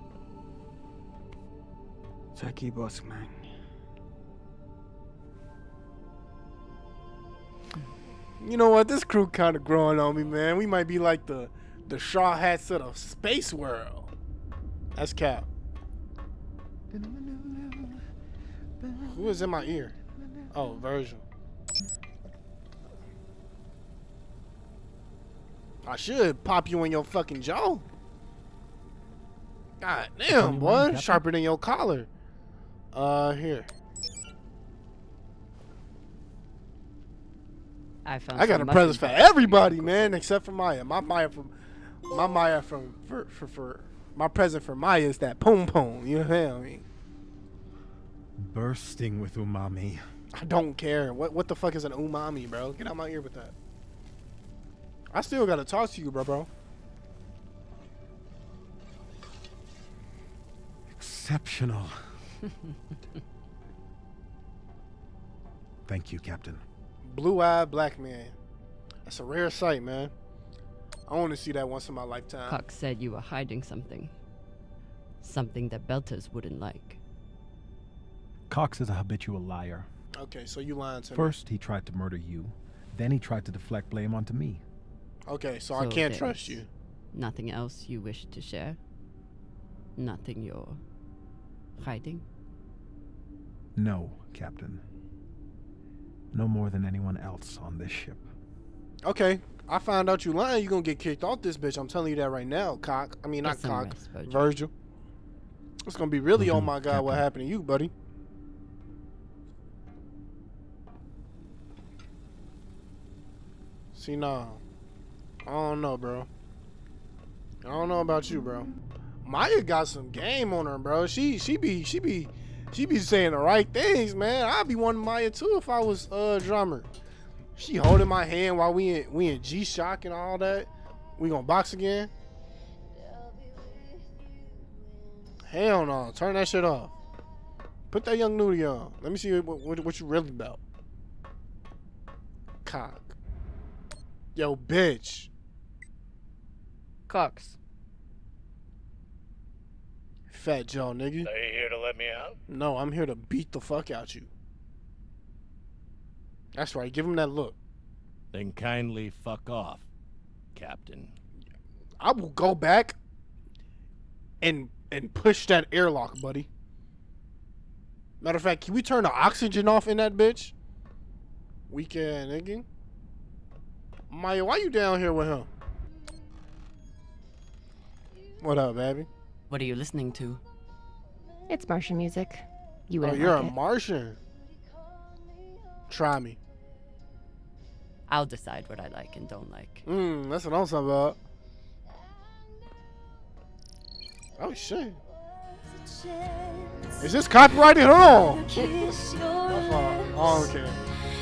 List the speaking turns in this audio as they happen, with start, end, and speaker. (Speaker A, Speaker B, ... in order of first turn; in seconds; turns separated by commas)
Speaker A: 8.4-14.1, Speaker A: 14.9-15.4, Speaker B: 16.9-18.0, Speaker B: 18.8-19.3, Speaker A: 19.1-19.9, Speaker B: 20.1-20.6, Speaker A: 20.5-21.2, Speaker A: 25.8-27.8, Speaker A: 29.8-32.1, Speaker B: 30.3-31.2, Speaker A: 32.9-33.7, Speaker C: 38.0-40.1, Speaker A: 38.3-41.5, Speaker A: 42.1-46.8, Speaker B: 48.4-50.0, Speaker A: 50.3-53.5, Speaker A: 55.1-56.5, Speaker B: 60.9-62.1, Speaker B: 65.8-66.6, Speaker A: 67.0-68.3, Speaker A: 69.0-70.1, Speaker A: 71.1-72.6, Speaker C: 72.5-74.1, Speaker C: 75.2-77.0, Speaker B: 78.5-79.9, Speaker A: 80.2-81.3, Speaker B: 81.1-84.6, Speaker A: 85.3-86.7, Speaker C: 85.7-86.6, Speaker C: 87.1-88.8, Speaker C: 90.0-90.8, Speaker C: 91.8-92.2, Speaker B: 93.7-94.8, Speaker B: 96.3-98.3, Speaker A: 99.0-104.7, Speaker C: 103.4-104.5, Speaker A: 105.8-107.9, Speaker B: 106.3-107.3, Speaker A: 114.0-114.6, Speaker A: 115.4-116.3, Speaker A: 117.6-118.7, Speaker A: 119.2-126.9, Speaker A: 127.5-132.1, Speaker A: 135.5-136.9, Speaker A: 137.9-140.6, Speaker A: 142.6-143.1, Speaker A: 144.3-145.3, Speaker C: 147.1-147.6, Speaker A: 150.3-151.3, Speaker D: 151.2-152.3, Speaker A: 152.5-154.3, Speaker A: 156.5-157.6, Speaker D: 158.3-159.8, Speaker D: 160.6-161.1, Speaker A: 162.0-162.9, Speaker A: 164.4-166.5, Speaker A: 168.2-170.5, Speaker A: 171.7-172.6, Speaker A: 174.1-175.5, Speaker A: 178.4-179.1, Speaker C: 179.5-180.4, Speaker E: 181.5-183.5, Speaker A: 183.0-184.2, Speaker A: 185.9-186.4, Speaker C: 188.1-189.8, Speaker A: 189.8-191.2, Speaker A: 194.4-195.0, Speaker A: 197.0-200.8